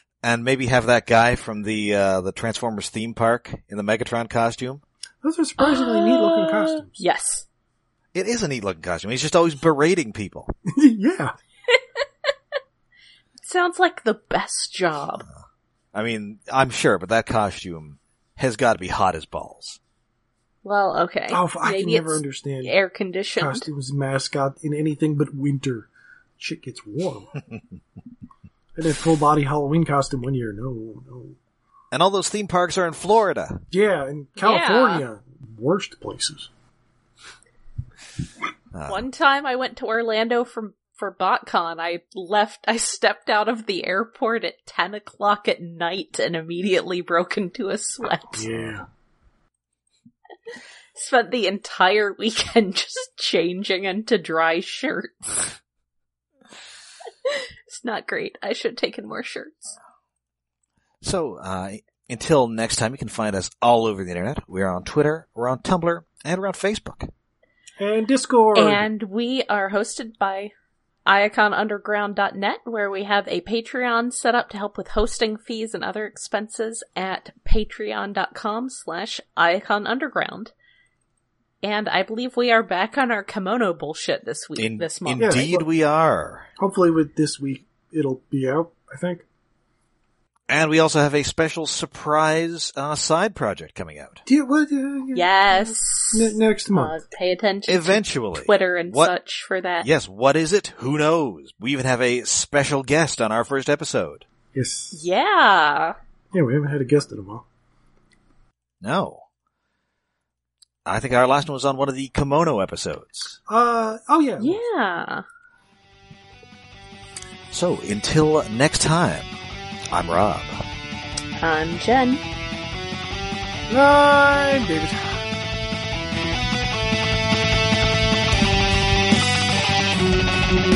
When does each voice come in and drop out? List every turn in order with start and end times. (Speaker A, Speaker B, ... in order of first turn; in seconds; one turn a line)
Speaker A: 0.2-4.8
Speaker B: 5.2-7.0
Speaker C: 5.6-7.5
Speaker A: 8.1-10.5
Speaker B: 10.7-11.3
Speaker C: 13.4-15.2
Speaker A: 15.9-19.8
Speaker C: 20.6-23.7
Speaker B: 21.3-22.7
Speaker B: 23.4-27.3
Speaker B: 28.8-31.4
Speaker A: 31.9-33.6
Speaker B: 33.7-36.5
Speaker C: 34.4-35.0
Speaker A: 38.7-39.0
Speaker C: 38.9-48.5
Speaker B: 48.3-48.9
Speaker C: 50.9-55.5
Speaker C: 57.2-59.8
Speaker A: 61.0-67.1
Speaker B: 67.8-68.9
Speaker C: 68.5-70.5
Speaker C: 71.0-80.5
Speaker C: 81.6-85.4
Speaker A: 84.5-86.5
Speaker B: 85.2-85.7
Speaker B: 86.6-89.2
Speaker A: 90.5-94.2
Speaker B: 94.2-97.0
Speaker C: 95.1-99.9
Speaker A: 97.7-99.1
Speaker A: 99.8-104.2
Speaker B: 104.5-105.0
Speaker C: 104.9-106.0
Speaker B: 106.3-107.4
Speaker A: 108.8-109.2
Speaker A: 110.8-113.4
Speaker B: 113.5-114.6
Speaker C: 114.4-115.2
Speaker A: 117.5-119.3
Speaker A: 119.9-120.6
Speaker C: 121.4-122.2
Speaker B: 123.7-125.3